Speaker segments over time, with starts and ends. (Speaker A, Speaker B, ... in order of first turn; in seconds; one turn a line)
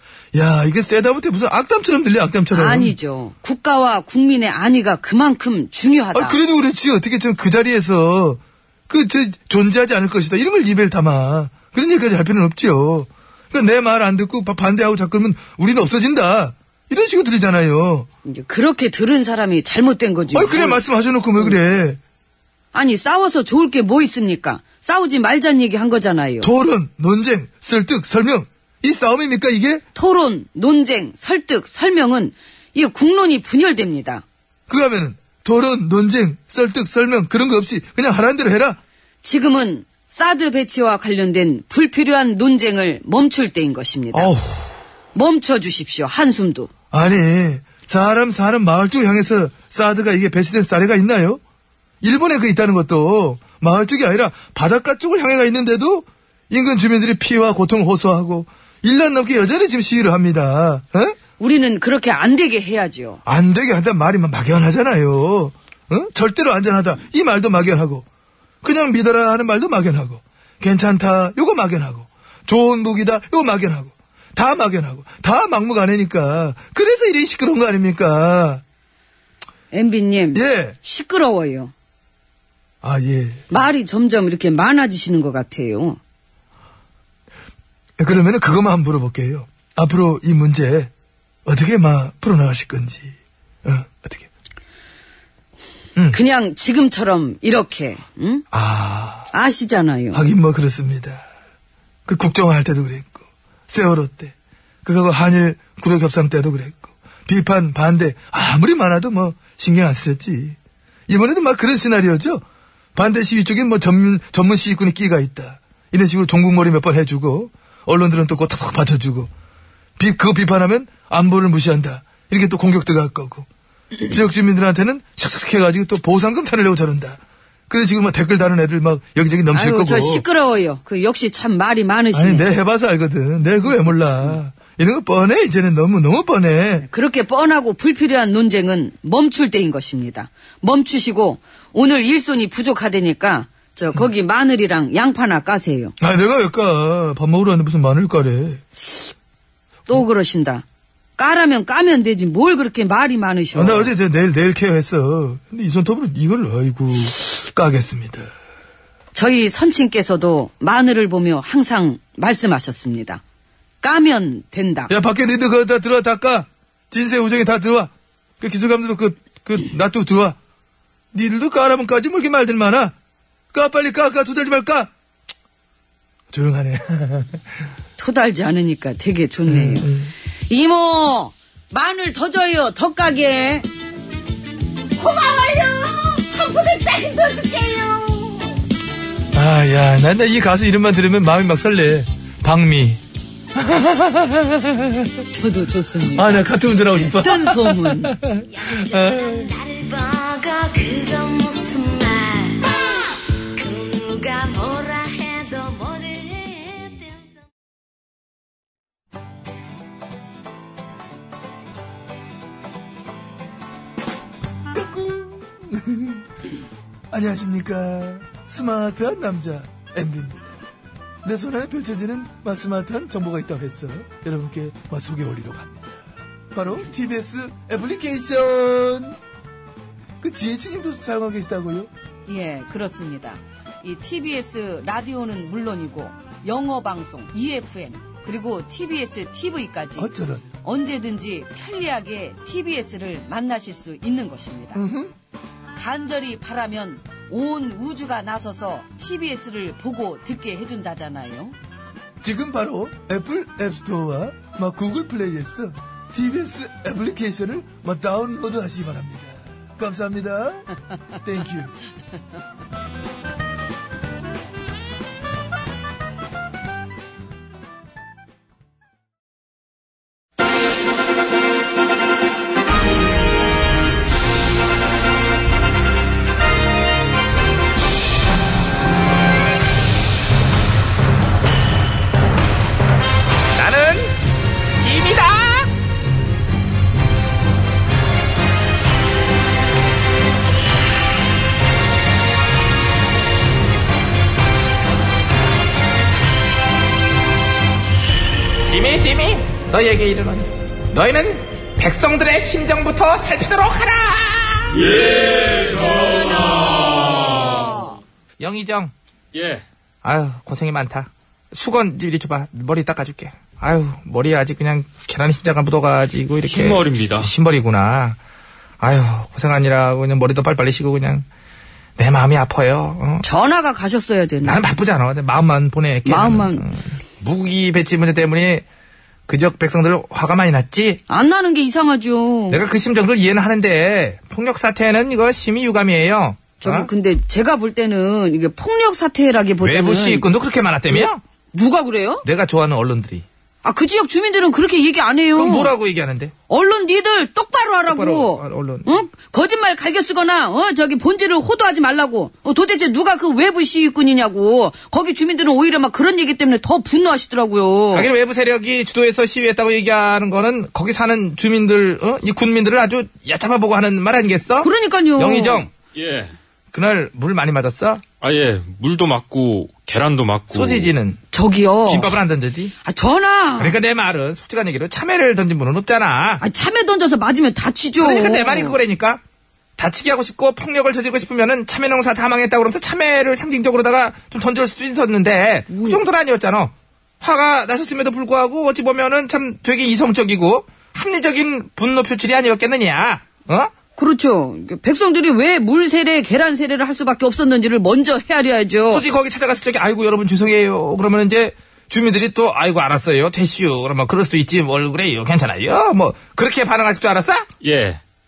Speaker A: 0.3-2.9
Speaker B: 2.5-6.3
Speaker A: 6.1-18.1
Speaker B: 18.2-20.8
Speaker A: 20.3-22.0
Speaker B: 22.7-26.5
Speaker A: 26.4-29.8
Speaker B: 29.9-34.2
Speaker A: 34.7-38.8
Speaker B: 39.2-44.3
Speaker A: 44.1-44.8
Speaker B: 45.1-46.7
Speaker A: 46.9-51.4
Speaker A: 52.0-61.1
Speaker B: 61.4-63.2
Speaker A: 63.2-68.0
Speaker A: 68.6-78.6
Speaker B: 79.7-81.7
Speaker A: 80.3-80.8
Speaker A: 82.8-83.5
Speaker B: 83.5-86.0
Speaker A: 88.0-90.9
Speaker A: 91.5-94.3
Speaker B: 96.1-98.4
Speaker A: 98.5-99.3
Speaker B: 99.3-100.2
Speaker A: 100.1-101.2
Speaker A: 102.1-104.3
Speaker A: 104.8-110.6
Speaker A: 111.1-112.4
Speaker A: 113.0-119.3
Speaker A: 120.0-123.5
Speaker A: 124.0-130.2
Speaker B: 129.5-132.5
Speaker A: 132.1-136.8
Speaker B: 133.7-134.3
Speaker B: 136.8-145.9
Speaker A: 146.0-148.6
Speaker B: 149.9-150.6
Speaker B: 151.2-153.9
Speaker A: 153.5-158.3
Speaker B: 159.1-163.2
Speaker B: 163.8-164.9
Speaker A: 164.9-170.4
Speaker A: 171.1-172.9
Speaker A: 173.5-174.9
Speaker A: 176.3-177.4
Speaker B: 178.0-179.9
Speaker A: 179.5-180.1
Speaker B: 180.5-183.7
Speaker B: 185.0-188.6
Speaker A: 189.3-193.0
Speaker A: 193.5-195.1
Speaker B: 195.3-198.1
Speaker A: 196.1-199.5
Speaker C: 199.3-202.6
Speaker B: 199.8-202.3
Speaker C: 203.6-207.1
Speaker B: 203.8-204.5
Speaker A: 214.7-216.2
Speaker A: 217.1-220.6
Speaker A: 221.2-229.2
Speaker A: 230.2-231.9
Speaker B: 232.2-244.8
Speaker A: 240.0-240.5
Speaker A: 244.7-245.1
Speaker B: 245.8-251.5
Speaker A: 252.2-260.7
Speaker A: 261.2-261.7
Speaker D: 283.5-284.1
Speaker D: 284.7-285.7
Speaker D: 298.6-305.0
Speaker E: 305.0-307.7
Speaker D: 308.4-308.9
Speaker E: 309.3-309.6
Speaker D: 310.0-318.2
Speaker E: 316.5-317.3
Speaker D: 318.8-321.2
Speaker D: 322.0-323.2
Speaker B: 323.2-324.7
Speaker D: 324.4-328.6
Speaker B: 326.0-326.6
Speaker D: 329.3-331.0
Speaker B: 331.1-332.6
Speaker D: 332.5-336.9
Speaker B: 336.6-340.2
Speaker D: 339.6-341.2
Speaker B: 340.9-342.2
Speaker D: 342.2-343.2
Speaker B: 343.6-345.7
Speaker D: 345.3-346.3
Speaker B: 346.5-358.1
Speaker D: 347.9-349.0
Speaker D: 357.9-365.7
Speaker B: 364.6-365.7
Speaker E: 365.9-366.3
Speaker D: 366.7-368.0
Speaker E: 368.2-370.9
Speaker D: 370.5-371.2
Speaker B: 371.3-372.2
Speaker D: 371.9-372.7
Speaker B: 372.8-373.8
Speaker D: 373.6-376.4
Speaker B: 376.4-378.8
Speaker D: 378.0-379.2
Speaker D: 379.8-393.7
Speaker B: 385.7-386.0
Speaker B: 393.9-399.0
Speaker D: 398.9-407.5
Speaker E: 407.6-408.0